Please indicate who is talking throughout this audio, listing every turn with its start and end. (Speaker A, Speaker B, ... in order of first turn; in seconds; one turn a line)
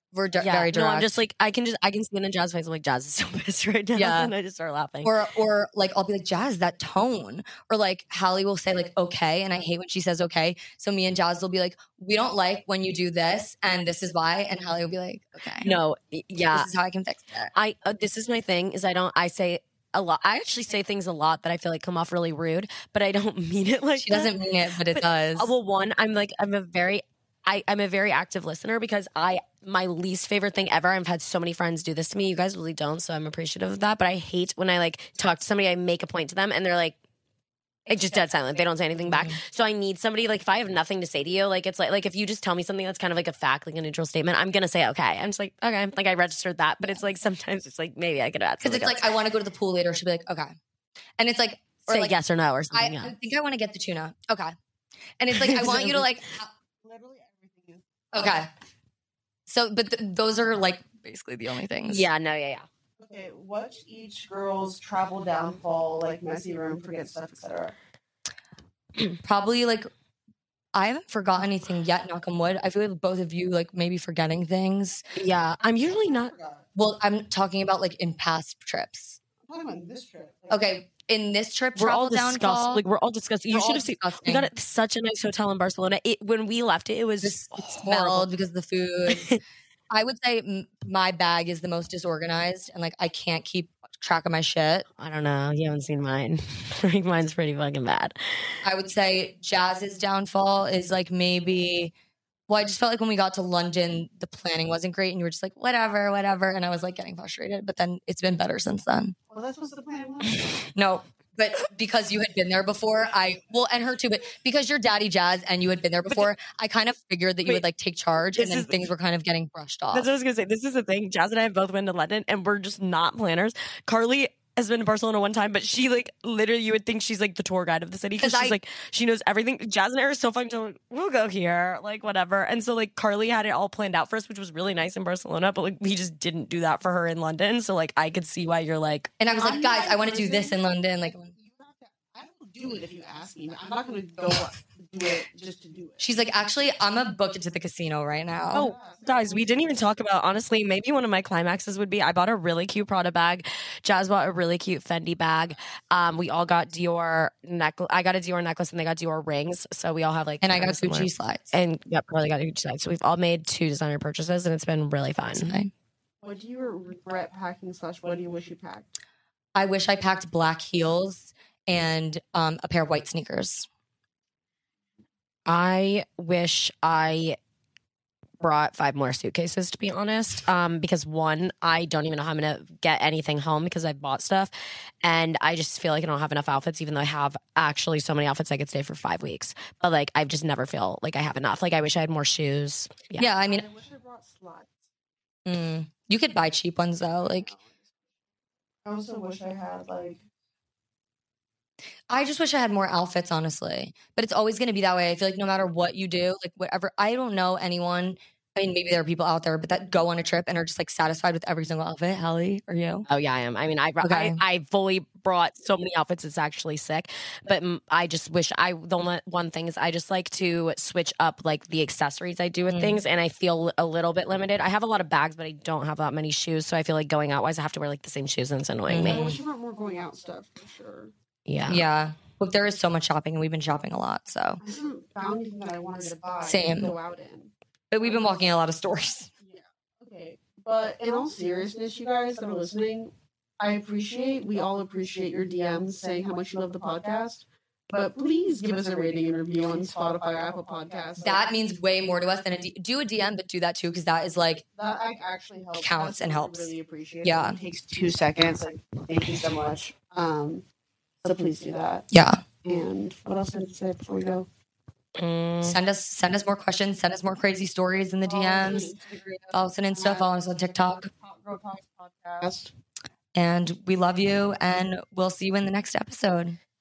Speaker A: 0.1-1.2
Speaker B: 0.4-5.1
Speaker A: 4.0-4.3
Speaker A: 5.0-15.7
Speaker B: 15.6-16.7
Speaker A: 16.5-17.5
Speaker B: 17.5-24.3
Speaker A: 24.0-25.5
Speaker B: 24.9-37.0
Speaker B: 37.9-49.1
Speaker C: 37.9-38.9
Speaker A: 39.1-39.4
Speaker A: 48.6-50.5
Speaker A: 51.2-52.1
Speaker B: 51.9-53.1
Speaker A: 52.7-54.5
Speaker A: 55.2-56.5
Speaker B: 55.3-56.1
Speaker C: 56.8-58.3
Speaker A: 58.1-58.5
Speaker A: 59.5-62.1
Speaker B: 61.9-62.7
Speaker C: 63.0-67.8
Speaker A: 69.2-69.9
Speaker A: 70.7-75.0
Speaker B: 75.2-76.3
Speaker C: 75.8-76.7
Speaker A: 76.8-79.2
Speaker C: 79.4-80.8
Speaker A: 80.5-82.8
Speaker B: 81.8-88.3
Speaker A: 83.5-84.5
Speaker A: 87.2-89.4
Speaker B: 89.1-89.4
Speaker A: 89.9-94.9
Speaker B: 95.0-98.6
Speaker A: 98.6-101.9
Speaker A: 102.5-109.2
Speaker C: 109.3-110.6
Speaker A: 110.8-120.1
Speaker B: 118.3-118.9
Speaker B: 119.9-139.1
Speaker A: 128.2-128.6
Speaker A: 139.2-141.3
Speaker C: 139.3-140.6
Speaker C: 141.4-146.1
Speaker A: 146.0-148.7
Speaker C: 148.5-149.7
Speaker B: 148.5-165.6
Speaker A: 160.4-161.5
Speaker A: 165.3-165.7
Speaker C: 166.2-169.0
Speaker A: 169.6-173.7
Speaker B: 175.5-177.4
Speaker B: 178.4-184.5
Speaker B: 185.0-193.3
Speaker A: 193.2-193.7
Speaker C: 193.4-194.9
Speaker A: 195.4-197.5
Speaker C: 197.2-198.1
Speaker C: 198.8-200.2
Speaker A: 202.1-213.1
Speaker B: 213.1-229.4
Speaker A: 214.0-214.4
Speaker A: 222.7-223.0
Speaker A: 228.9-229.4
Speaker C: 229.0-231.1
Speaker B: 231.5-231.8
Speaker A: 231.7-234.6
Speaker C: 234.6-237.5
Speaker A: 236.5-236.9
Speaker A: 237.9-239.3
Speaker C: 238.0-238.4
Speaker C: 239.4-251.4
Speaker A: 251.2-254.6
Speaker C: 254.8-260.6
Speaker A: 255.8-256.7
Speaker A: 257.2-257.6
Speaker C: 261.2-262.1
Speaker A: 262.1-262.4
Speaker C: 262.6-264.5
Speaker B: 265.2-265.8
Speaker A: 265.6-268.9
Speaker C: 268.3-270.3
Speaker A: 269.5-271.1
Speaker C: 271.0-272.7
Speaker A: 273.4-276.6